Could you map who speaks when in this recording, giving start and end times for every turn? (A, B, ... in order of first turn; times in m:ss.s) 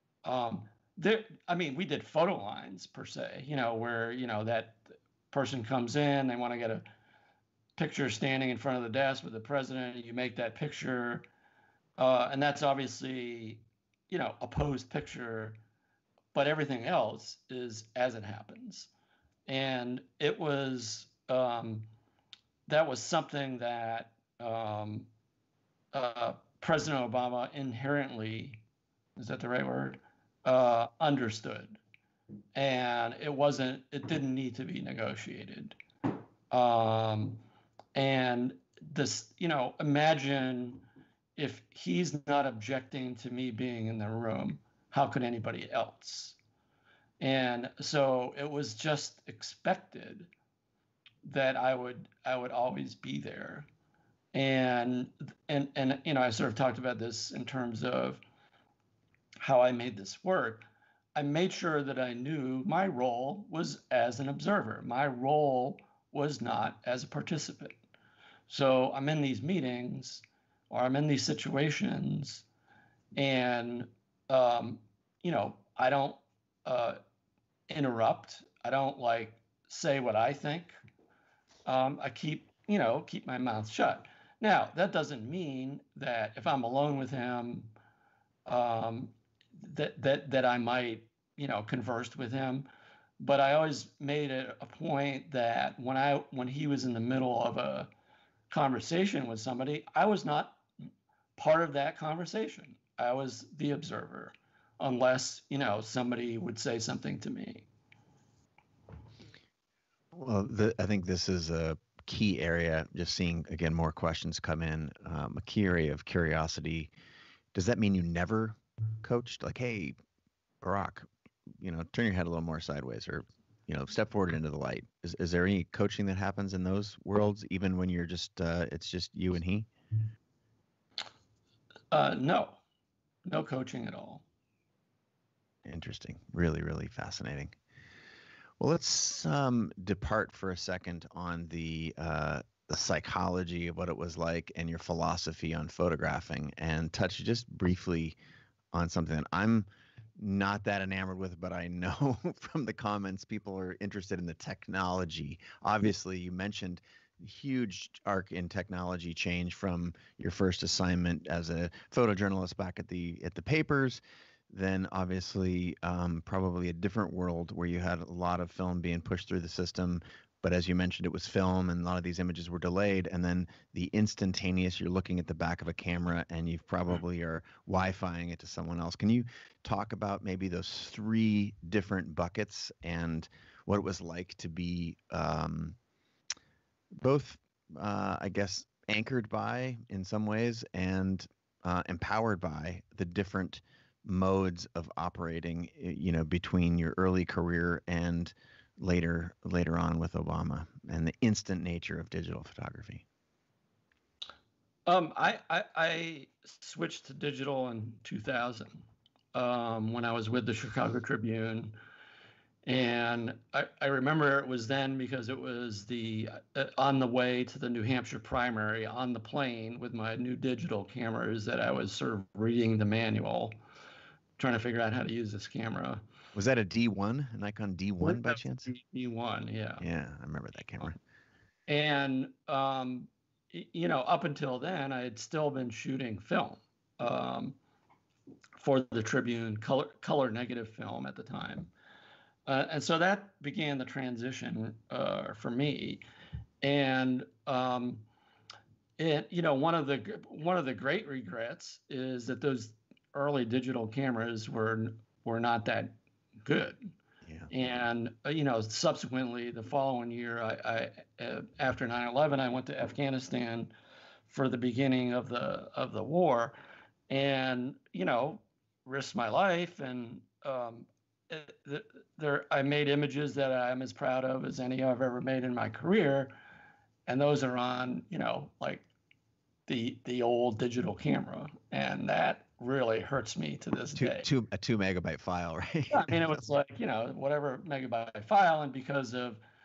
0:00.2-0:06.8 A
0:07.8-0:11.2 A
0:12.0-0:15.6 A
0:16.3-0:18.9 A
0:19.5-0:21.9 A
0:22.7-0:25.1 A
0:25.9-0:28.6 A
0:29.2-0:31.8 A
0:32.5-0:35.8 A
0:36.5-0:37.4 A
0:37.9-0:40.8 A
0:41.4-0:46.4 A
0:47.2-0:50.3 A
0:51.2-0:53.7 A
0:54.3-0:58.2 A
0:59.4-1:07.8 A
1:08.5-1:12.4 A
1:13.2-1:17.0 A
1:17.7-1:20.7 A
1:21.6-1:27.7 A
1:28.5-1:32.7 A
1:33.2-1:37.9 A
1:38.5-1:40.6 A
1:41.4-1:47.6 A
1:50.1-1:56.9 B
1:57.5-2:00.0 B
2:00.6-2:01.1 B
2:01.6-2:09.7 B
2:11.9-2:12.6 A
2:13.2-2:14.2 A
2:15.6-2:17.5 B
2:18.6-2:28.2 B
2:28.7-3:05.8 B
3:07.0-3:23.0 B
3:24.8-3:31.8 A
3:32.6-3:43.6 A
3:44.4-3:46.0 A
3:46.3-3:48.7 B
3:48.0-3:49.8 A
3:49.8-3:51.0 B
3:51.7-3:57.6 A
3:58.6-4:01.7 A
4:02.5-4:06.0 A
4:06.6-4:08.0 A
4:09.0-4:16.8 A
4:17.5-4:23.7 A
4:24.3-4:26.6 A
4:27.1-4:36.3 A
4:37.1-4:38.8 A
4:39.7-4:44.3 A
4:44.0-4:46.2 B
4:45.9-4:49.4 A